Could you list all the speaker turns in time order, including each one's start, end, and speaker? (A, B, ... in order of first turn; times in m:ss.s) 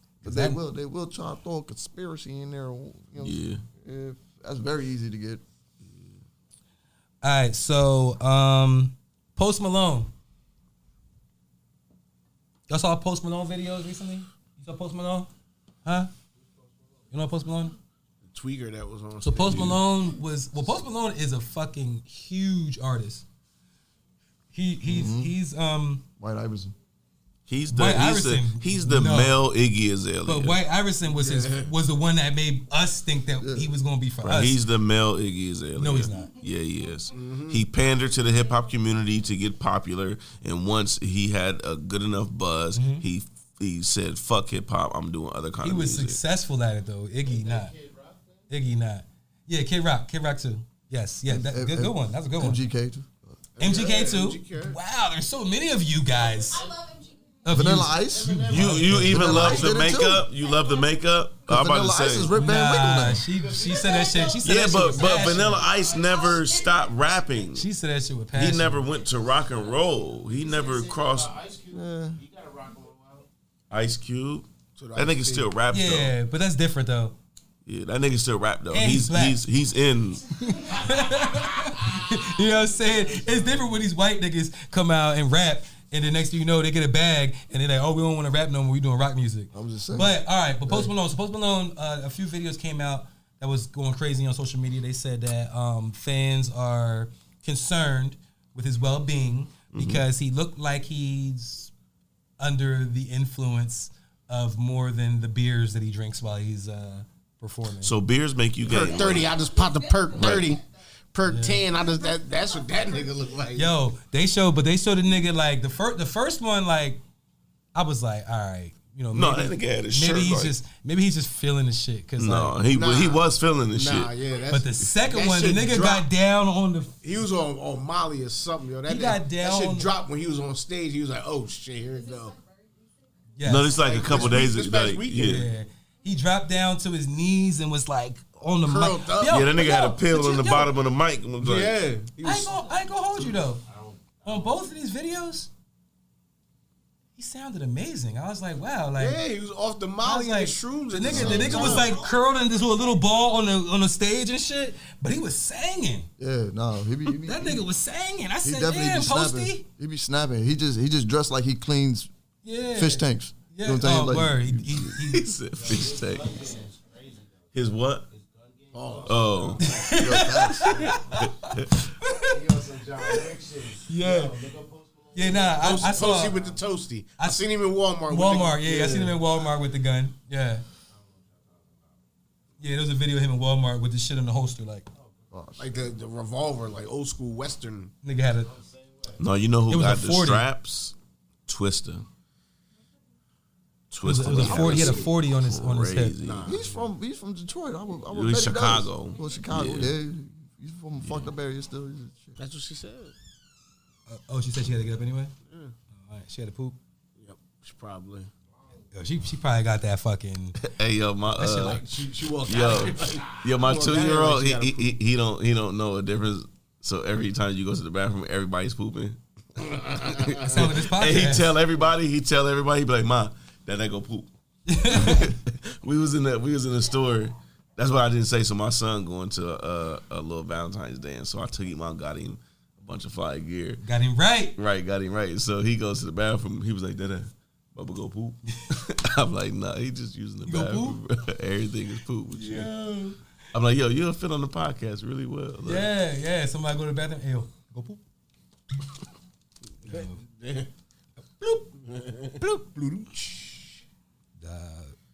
0:00.2-0:00.6 A
0:00.2-0:05.4 B
0:03.2-0:03.6 C
0:07.2-0:10.1 A
0:12.7-0:15.3 A
0:15.8-0:16.1 A
0:17.1-0:17.8 A
0:18.2-0:19.8 D
0:19.2-0:23.2 A
0:19.5-0:19.7 C
0:24.5-0:26.0 A
0:24.9-0:25.3 B
0:26.2-0:26.8 B
0:27.5-0:30.6 C
0:27.7-0:29.4 A
0:30.2-0:34.6 A
0:31.0-0:31.7 D
0:33.4-0:33.7 B
0:34.2-0:46.2 C
0:35.8-0:36.3 A
0:36.2-0:37.1 E
0:37.1-0:37.6 D
0:38.2-0:38.7 E
0:42.7-0:43.1 A
0:45.6-0:47.7 A
0:47.2-0:48.5 F
0:48.5-0:52.6 A
0:51.3-0:53.3 B
0:53.6-0:54.8 D
0:53.6-0:56.7 A
0:56.1-0:57.8 E
0:57.4-0:59.8 A
0:57.5-1:00.3 B
0:57.9-0:59.5 F
0:58.5-1:02.3 C
0:59.9-1:01.2 E
1:01.5-1:03.2 B
1:02.3-1:05.6 A
1:03.1-1:06.5 F
1:03.8-1:04.1 E
1:04.4-1:07.7 C
1:05.7-1:07.5 E
1:07.5-1:08.8 A
1:08.3-1:11.4 C
1:08.9-1:13.3 F
1:11.7-1:12.2 B
1:13.7-1:16.1 C
1:14.8-1:15.5 D
1:15.7-1:17.2 A
1:17.7-1:20.3 C
1:18.7-1:19.4 A
1:20.3-1:41.7 A
1:20.8-1:23.9 F
1:29.5-1:30.9 B
1:39.7-1:40.0 C
1:42.4-1:48.0 A
1:47.8-1:49.3 C
1:48.6-1:53.7 D
1:48.6-1:50.8 E
1:51.2-1:51.7 A
1:51.6-1:53.5 E
1:53.5-1:57.0 A
1:57.8-2:02.6 A
1:59.1-2:00.5 C
2:02.2-2:04.2 C
2:02.7-2:06.1 D
2:04.5-2:07.0 A
2:07.0-2:12.4 D
2:08.9-2:09.9 A
2:11.8-2:14.1 E
2:13.4-2:14.4 A
2:13.4-2:15.5 C
2:13.7-2:15.5 D
2:15.1-2:20.7 A
2:18.6-2:19.6 D
2:19.3-2:21.8 C
2:21.4-2:22.6 D
2:22.2-2:23.6 A
2:23.7-2:24.7 F
2:24.2-2:25.5 A
2:27.2-2:29.2 A
2:29.0-2:32.0 D
2:30.0-2:36.1 A
2:31.1-2:31.7 B
2:31.7-2:33.0 E
2:36.2-2:37.6 B
2:37.1-2:39.6 A
2:38.4-2:42.1 B
2:42.4-2:45.4 A
2:42.7-2:45.0 B
2:45.0-2:46.5 C
2:45.6-2:51.2 F
2:47.5-2:48.1 C
2:48.7-2:49.9 D
2:49.1-2:49.6 C
2:49.6-2:53.3 A
2:50.0-2:50.9 B
2:51.2-2:51.7 C
2:52.3-2:56.6 F
2:53.9-2:54.4 A
2:55.1-2:56.4 A
2:55.6-2:59.2 D
2:58.1-3:00.6 A
3:00.9-3:02.0 F
3:02.6-3:04.9 A
3:05.0-3:05.9 F
3:05.3-3:05.7 B
3:05.6-3:07.9 D
3:08.0-3:08.5 A
3:08.3-3:09.2 F
3:09.2-3:11.0 C
3:09.7-3:10.5 A
3:11.5-3:12.1 C
3:13.9-3:16.6 C
3:14.0-3:16.2 A
3:14.3-3:15.1 D
3:16.2-3:16.9 D
3:16.4-3:22.4 B
3:18.1-3:20.0 C
3:21.0-3:21.3 C
3:22.4-3:23.2 D
3:24.1-3:25.3 A
3:25.5-3:25.8 D
3:25.9-3:26.8 A
3:27.2-3:28.3 D
3:28.9-3:30.6 A
3:30.6-3:31.9 C
3:31.3-3:31.8 A
3:31.6-3:34.9 D
3:32.4-3:44.3 C
3:33.1-3:33.4 F
3:40.1-3:40.6 D
3:40.5-3:41.6 A
3:44.7-3:45.3 A
3:44.9-3:53.8 C
3:53.8-3:54.6 A
3:54.6-4:02.7 C
4:00.5-4:01.0 A
4:02.3-4:03.2 A
4:03.5-4:05.9 C
4:05.6-4:08.0 A
4:09.8-4:10.2 A
4:09.9-4:10.7 D
4:11.4-4:11.7 A
4:11.8-4:13.8 D
4:14.4-4:15.0 A